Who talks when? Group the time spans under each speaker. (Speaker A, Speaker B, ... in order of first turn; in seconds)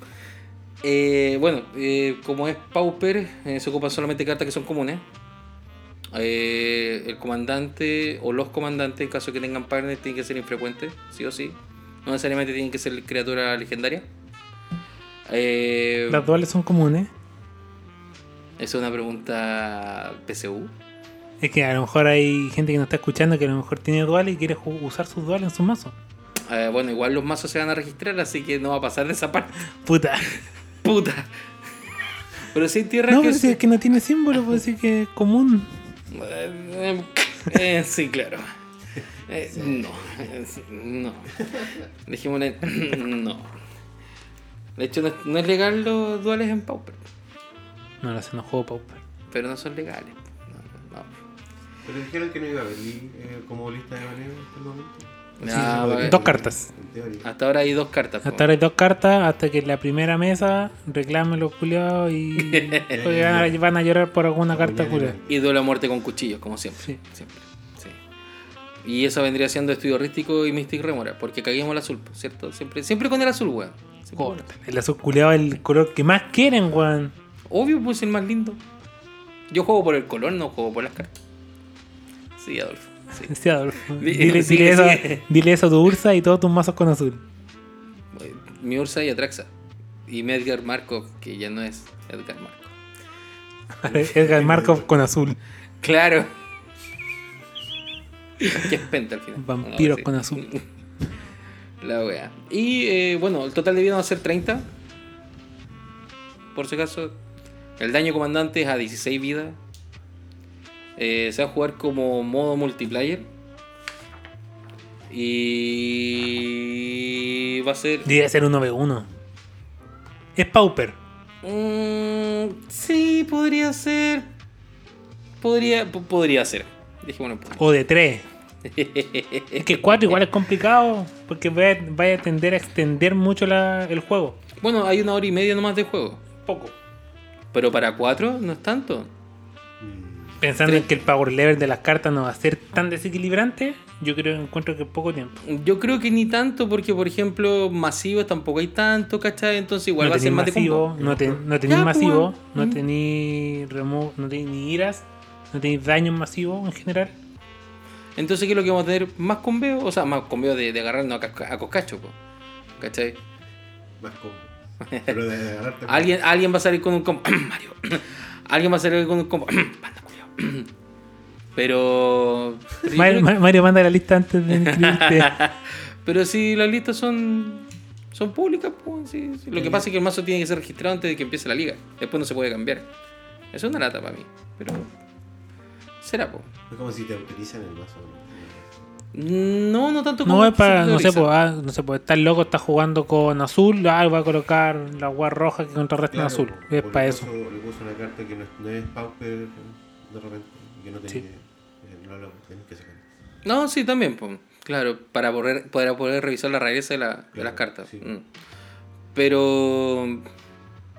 Speaker A: 0.8-5.0, 6.1-14.1, 15.3-16.3, 18.6-20.7, 26.4-29.6, 30.8-31.3, 32.4-33.6, 36.1-38.6, 39.3-43.5, 44.8-47.0, 49.3-51.1, 55.4-56.2, 57.2-58.5, 62.4-62.9, 65.2-68.0, 68.8-74.5, 77.5-78.6, 79.5-81.2, 82.4-83.3, 83.9-85.2, 88.1-89.5, 90.1-92.7, 95.8-96.3, 98.4-100.7, 101.8-104.7, 106.5-107.1, 107.8-109.6, 111.0-113.3, 115.1-118.1, 121.4-124.3, 125.4-127.6, 128.6-130.2, 134.6-136.2, 137.5-139.1, 140.6-140.9, 145.4-150.9, 151.7-152.8, 158.2-162.1, 162.8-163.2, 164.8-165.1, 165.8-170.7, 171.6-173.3, 174.5-182.9, 183.5-184.9, 186.0-186.5, 189.1-191.3, 203.4-208.2, 209.1-210.2
Speaker B: 16.1-17.1, 21.4-25.9, 29.8-30.3, 33.1-35.7, 48.0-49.0, 55.5-56.7, 58.2-65.2, 74.2-77.1, 83.2-87.2, 93.8-95.4, 99.4-100.5, 118.0-119.1, 120.3-120.9, 127.6-128.2, 129.6-134.4, 136.4-136.7, 140.4-145.4, 150.0-157.1, 172.9-175.3, 190.2-197.3
Speaker C: 39.4-40.4, 41.4-41.8, 51.8-57.3, 62.9-63.6, 64.5-65.4, 93.8-94.9, 139.8-140.4, 150.9-151.4, 164.0-166.1, 186.7-188.9, 196.1-203.0, 207.3-208.1